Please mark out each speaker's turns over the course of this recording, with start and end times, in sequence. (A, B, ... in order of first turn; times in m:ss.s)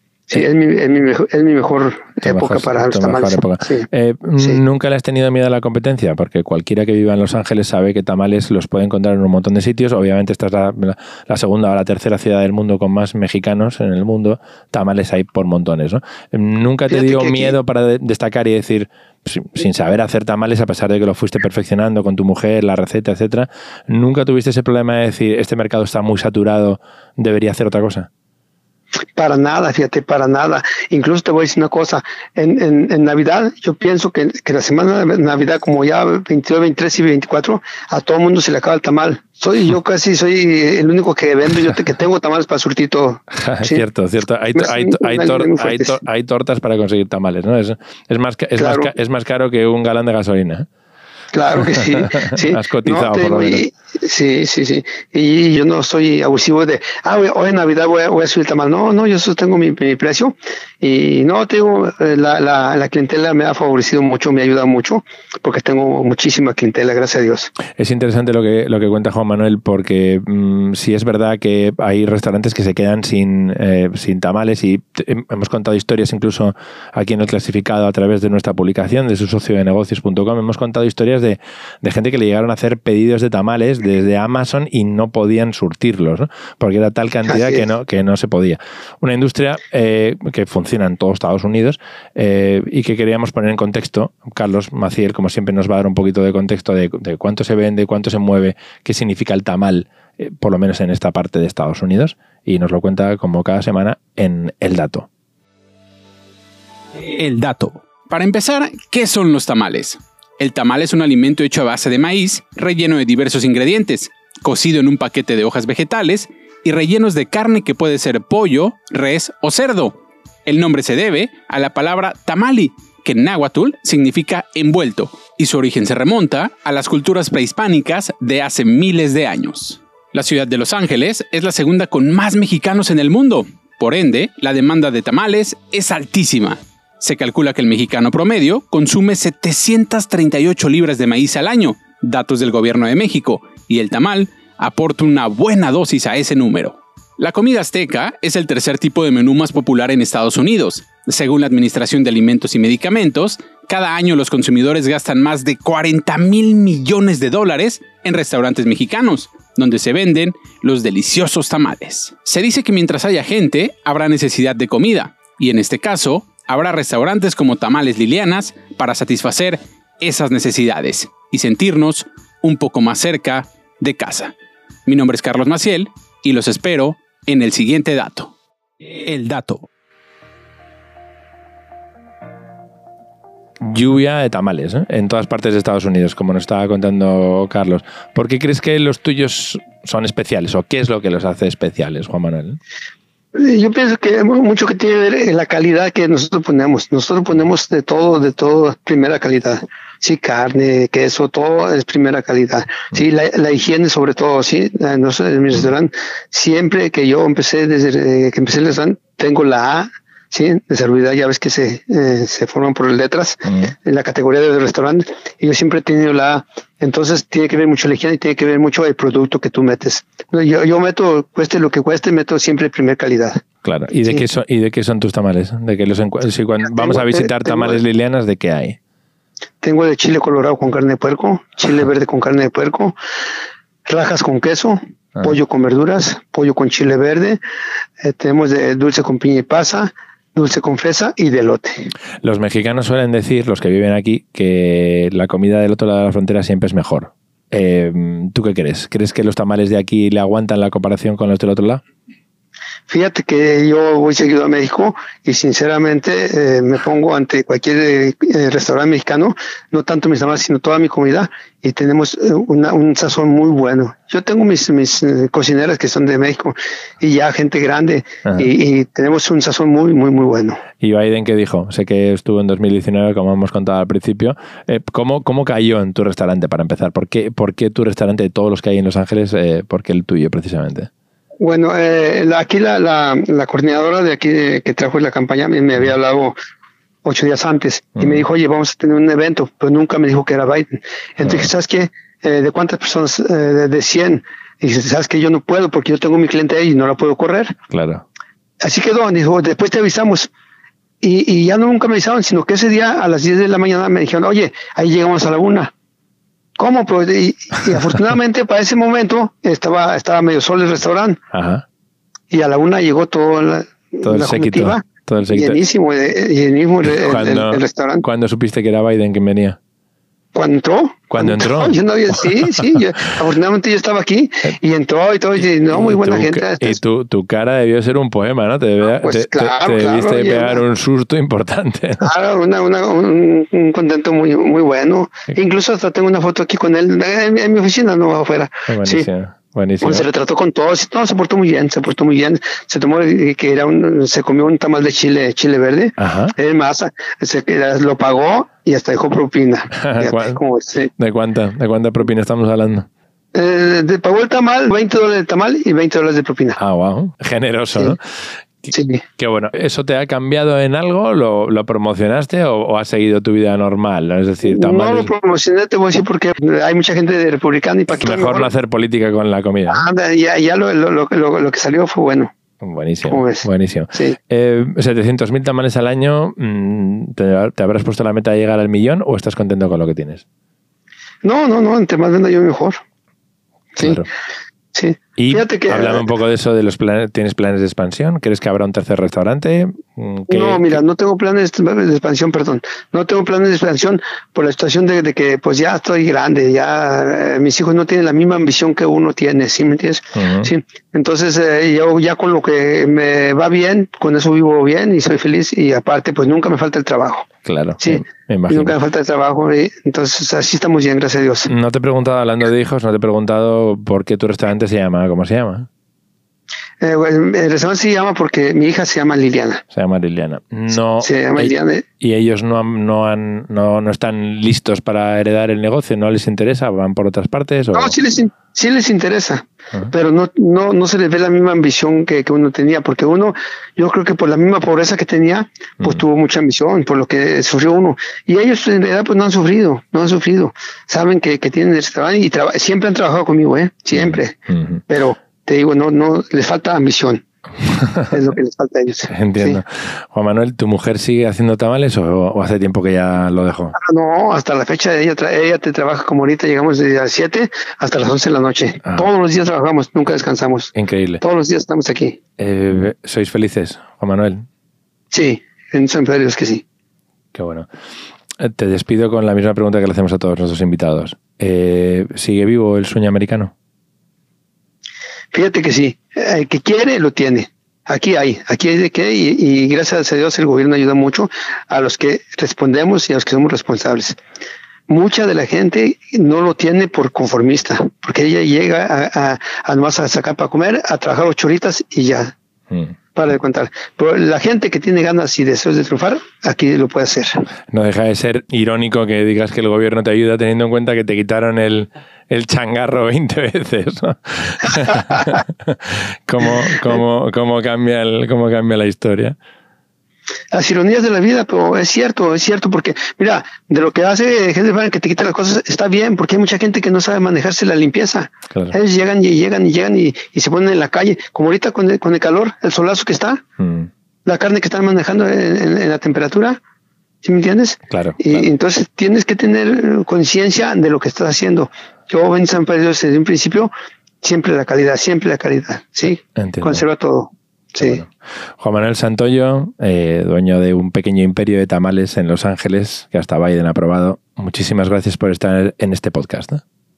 0:00.3-0:04.6 A
0:02.2-0:28.1 B
0:16.9-0:17.6 A
0:29.2-0:43.8 A
0:43.3-0:50.7 B
0:44.5-0:46.0 A
0:48.6-0:48.9 A
0:51.3-1:07.5 A
0:52.0-0:53.6 B
1:07.8-1:45.1 B
1:27.3-1:27.6 A
1:46.9-2:54.3 C
2:54.8-2:59.6 C
3:03.6-3:12.6 B
3:13.3-3:43.4 A
3:33.4-3:33.7 B
3:43.6-3:48.8 B
3:46.7-3:47.8 A
3:49.6-3:53.0 A
3:53.8-3:57.4 A
3:58.0-4:01.9 A
4:02.2-4:11.8 B
4:12.9-4:30.6 A
4:30.8-4:40.9 B
4:41.4-4:46.4 A
4:47.0-4:57.6 A
4:48.0-4:48.2 B
4:51.2-4:51.5 B
4:57.7-4:58.0 B
4:58.6-5:00.3 A
5:01.0-5:05.7 A
5:06.6-5:11.2 A
5:11.3-5:11.6 B
5:12.3-5:18.0 A
5:14.0-5:15.6 B
5:16.8-5:19.6 B
5:20.3-5:26.8 A
5:21.1-5:21.8 B
5:25.7-5:32.1 B
5:28.8-5:30.6 A
5:32.0-5:39.1 A
5:38.7-5:40.0 B
5:39.8-5:50.9 A
5:46.0-5:46.3 B
5:49.7-5:50.4 B
5:51.0-5:52.9 B
5:53.3-5:56.6 A
5:56.6-5:58.0 B
5:58.6-6:05.1 B
5:58.7-5:59.0 A
6:04.4-6:08.5 A
6:08.0-6:09.8 B
6:09.7-6:12.3 A
6:12.6-6:20.2 B
6:13.1-6:14.2 A
6:21.2-6:22.8 A
6:23.8-6:24.0 A
6:23.8-6:24.0 B
6:24.7-6:26.0 A
6:25.2-6:30.8 B
6:30.3-6:47.3 A
6:40.2-6:40.5 B
6:47.4-6:48.8 B
6:47.8-6:51.5 A
6:51.5-6:55.7 B
6:56.8-6:59.6 A
6:59.7-7:08.0 B
7:01.0-7:01.8 A
7:07.7-7:27.2 A
7:23.9-7:24.8 B
7:27.8-7:28.1 B
7:28.1-7:29.6 A
7:29.1-7:33.8 B
7:33.7-7:42.2 A
7:40.7-7:41.2 B
7:42.4-7:44.4 B
7:45.1-7:46.6 A
7:47.3-7:47.7 B
7:48.4-7:53.5 B
7:55.3-8:04.2 A
8:04.9-8:12.3 A
8:13.1-8:17.4 A
8:17.7-8:29.4 B
8:30.5-8:43.4 A
8:38.5-8:38.8 B
8:43.6-8:43.9 B
8:44.2-8:46.6 A
8:47.2-8:53.7 A
8:47.9-8:48.5 B
8:54.2-8:58.0 A
8:56.3-8:56.8 B
8:57.8-9:06.6 B